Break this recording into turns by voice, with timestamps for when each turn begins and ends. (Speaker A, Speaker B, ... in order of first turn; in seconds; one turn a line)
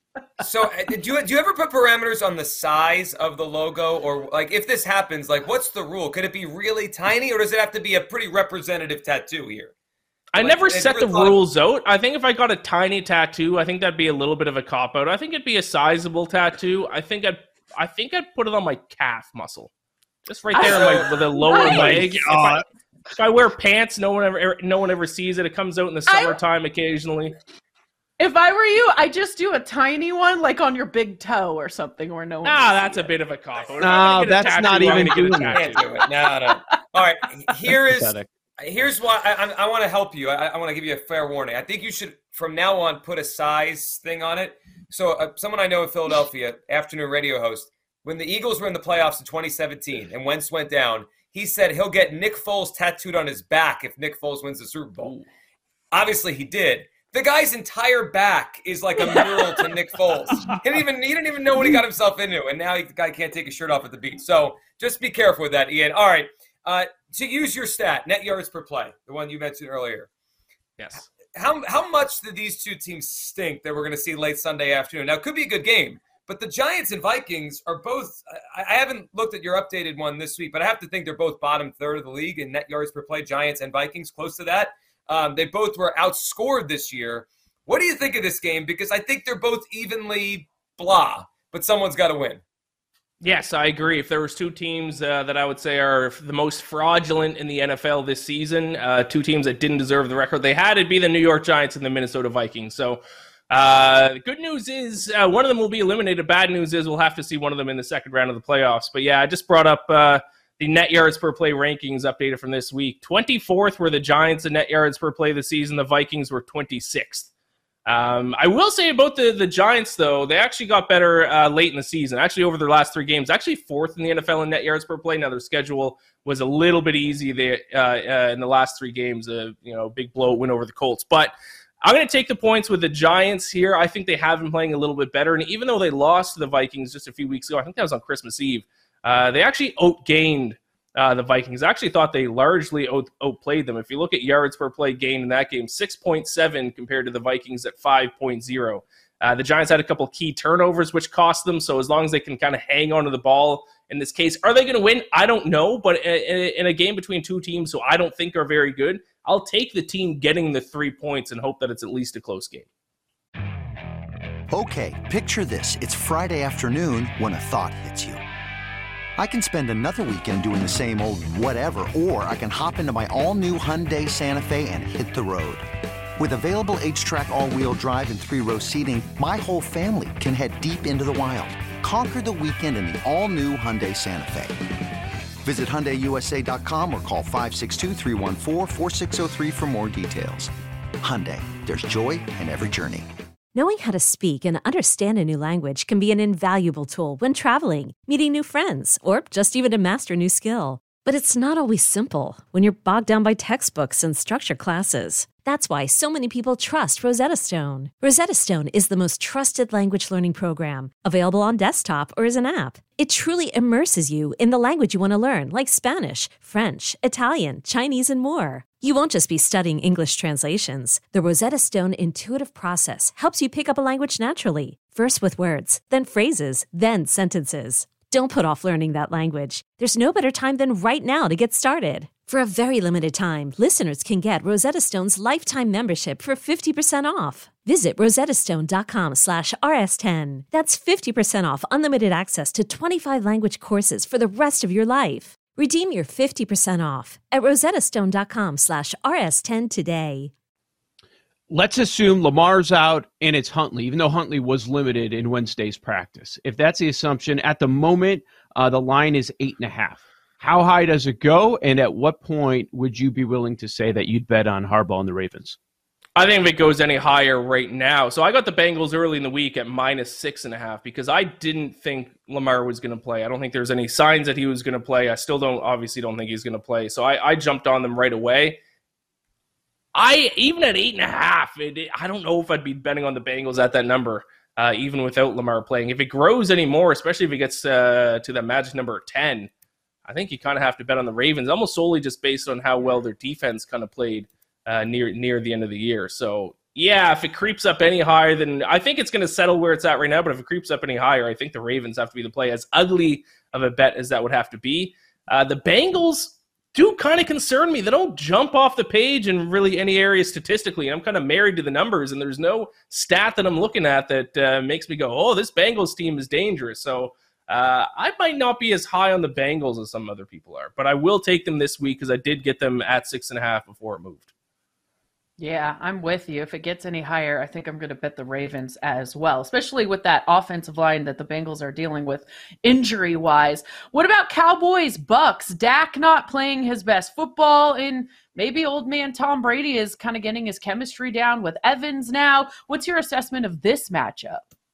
Speaker A: 0.4-9.7
Speaker B: 10.3-19.7
Speaker A: 10.4-11.4
Speaker B: 20.2-22.6
Speaker C: 20.5-21.8
Speaker A: 20.7-21.1
Speaker D: 21.6-22.6
Speaker B: 23.1-27.4
Speaker C: 26.1-26.4
Speaker C: 28.2-33.1
Speaker B: 32.4-35.8
Speaker D: 33.8-35.6
Speaker A: 35.5-55.2
Speaker D: 37.8-38.3
Speaker A: 55.9-70.1
Speaker B: 70.8-71.1
Speaker A: 71.3-92.4
Speaker B: 93.2-117.3
Speaker B: 117.9-162.7
Speaker E: 164.5-168.2
Speaker E: 169.2-175.6
Speaker E: 176.2-184.5
Speaker E: 185.4-190.5
Speaker E: 191.0-193.1
Speaker F: 193.6-250.3
Speaker D: 251.5-265.6
Speaker B: 266.2-278.6
Speaker B: 279.9-289.5
Speaker B: 290.1-324.3
Speaker C: 325.4-344.4